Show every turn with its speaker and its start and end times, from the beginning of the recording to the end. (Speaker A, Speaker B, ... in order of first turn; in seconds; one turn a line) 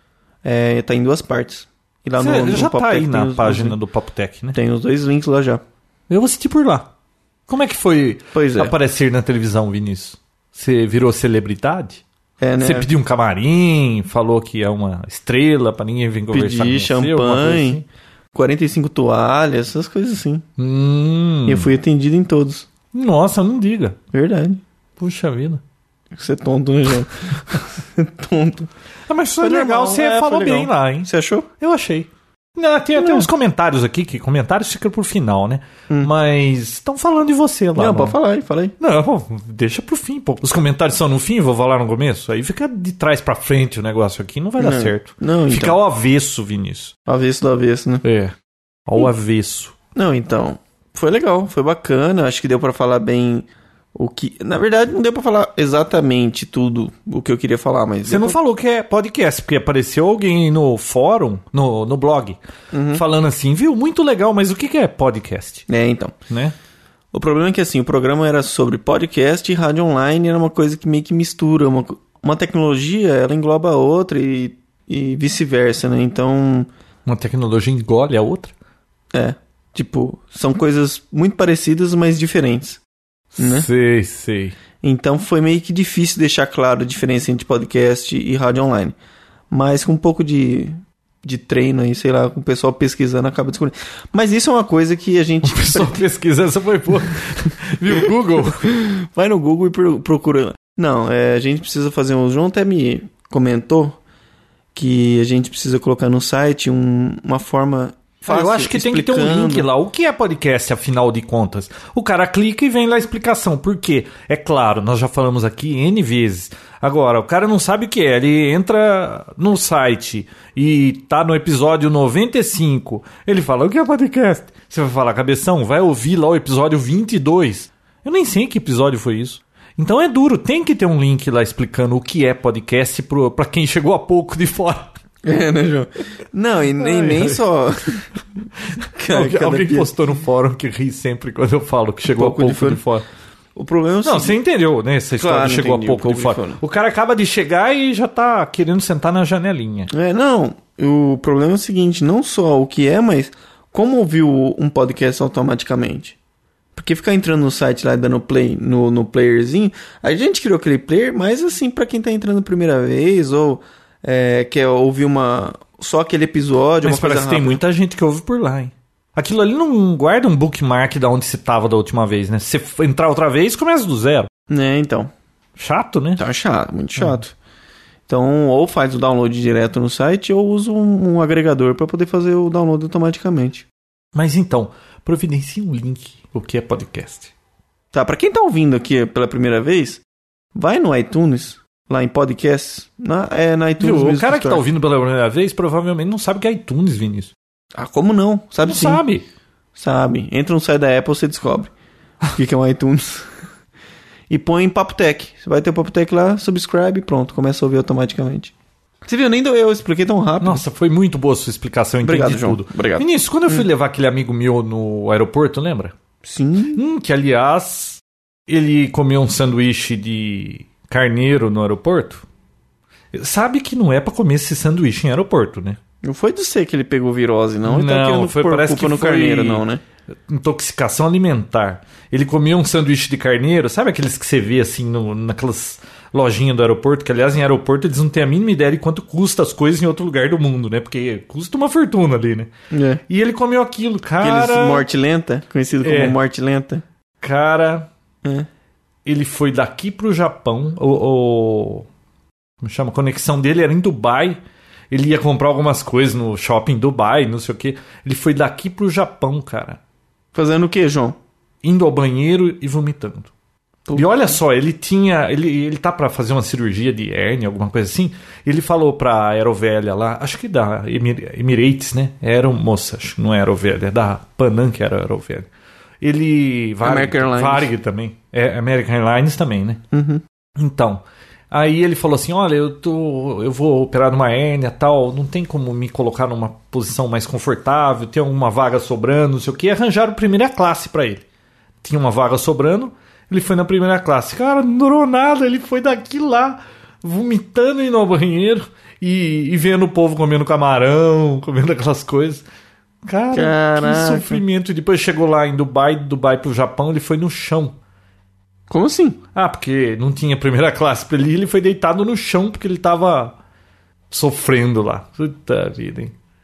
Speaker A: 0.4-3.8
Speaker B: 2.2-4.6
Speaker A: 4.5-5.6
Speaker B: 6.1-6.9
Speaker B: 7.5-12.0
Speaker A: 8.3-8.7
Speaker A: 12.4-12.9
Speaker B: 12.6-17.8
Speaker A: 16.3-17.8
Speaker A: 18.3-20.4
Speaker B: 20.6-21.7
Speaker A: 21.4-22.7
Speaker B: 22.9-24.0
Speaker A: 24.1-24.6
Speaker B: 25.0-25.6
Speaker A: 26.1-28.7
Speaker B: 29.1-38.2
Speaker A: 29.4-31.5
Speaker A: 33.0-33.3
Speaker A: 37.8-38.7
Speaker B: 38.8-46.9
Speaker A: 44.6-45.8
Speaker A: 47.1-48.0
Speaker B: 48.0-48.3
Speaker B: 48.9-49.7
Speaker A: 49.9-58.4
Speaker B: 58.0-62.4
Speaker A: 62.7-63.0
Speaker B: 62.9-65.6
Speaker A: 65.7-66.1
Speaker A: 67.1-76.7
Speaker B: 77.0-78.5
Speaker A: 79.1-82.8
Speaker B: 83.3-84.5
Speaker A: 83.4-83.7
Speaker A: 84.8-89.0
Speaker A: 89.5-96.0
Speaker B: 95.4-98.7
Speaker A: 98.6-104.0
Speaker A: 104.7-109.7
Speaker B: 108.2-134.9
Speaker A: 135.2-138.1
Speaker B: 136.8-137.4
Speaker B: 138.8-143.1
Speaker A: 138.9-140.2
Speaker A: 142.1-142.8
Speaker A: 143.5-144.4
Speaker B: 144.0-149.9
Speaker A: 145.2-146.6
Speaker A: 149.9-156.2
Speaker A: 156.7-167.6
Speaker B: 166.8-174.3
Speaker A: 174.5-175.1
Speaker B: 175.6-176.2
Speaker A: 176.2-177.3
Speaker A: 178.1-183.7
Speaker B: 184.1-187.3
Speaker A: 187.9-190.0
Speaker A: 190.5-194.6
Speaker B: 193.8-197.3
Speaker A: 197.7-199.0
Speaker B: 198.6-199.2
Speaker A: 199.7-201.7
Speaker A: 202.3-203.3
Speaker A: 204.3-208.5
Speaker A: 209.0-210.6
Speaker B: 210.4-215.9
Speaker A: 212.0-213.7
Speaker A: 216.2-216.8
Speaker B: 216.7-222.2
Speaker B: 223.1-225.8
Speaker A: 226.0-229.8
Speaker B: 227.6-229.6
Speaker B: 230.3-242.5
Speaker A: 242.7-243.0
Speaker B: 243.1-244.8
Speaker A: 244.2-246.8
Speaker B: 245.8-246.2
Speaker B: 247.2-247.9
Speaker B: 249.0-251.8
Speaker B: 252.6-254.4
Speaker B: 254.9-259.8
Speaker A: 260.3-261.2
Speaker B: 261.6-263.3
Speaker A: 263.9-264.4
Speaker B: 263.9-275.5
Speaker B: 276.0-279.8
Speaker A: 276.8-277.7
Speaker A: 279.9-280.2
Speaker B: 280.6-291.2
Speaker B: 291.8-302.4
Speaker B: 303.1-307.8
Speaker A: 303.3-304.4
Speaker A: 308.7-309.2
Speaker B: 309.3-313.3
Speaker B: 314.1-316.1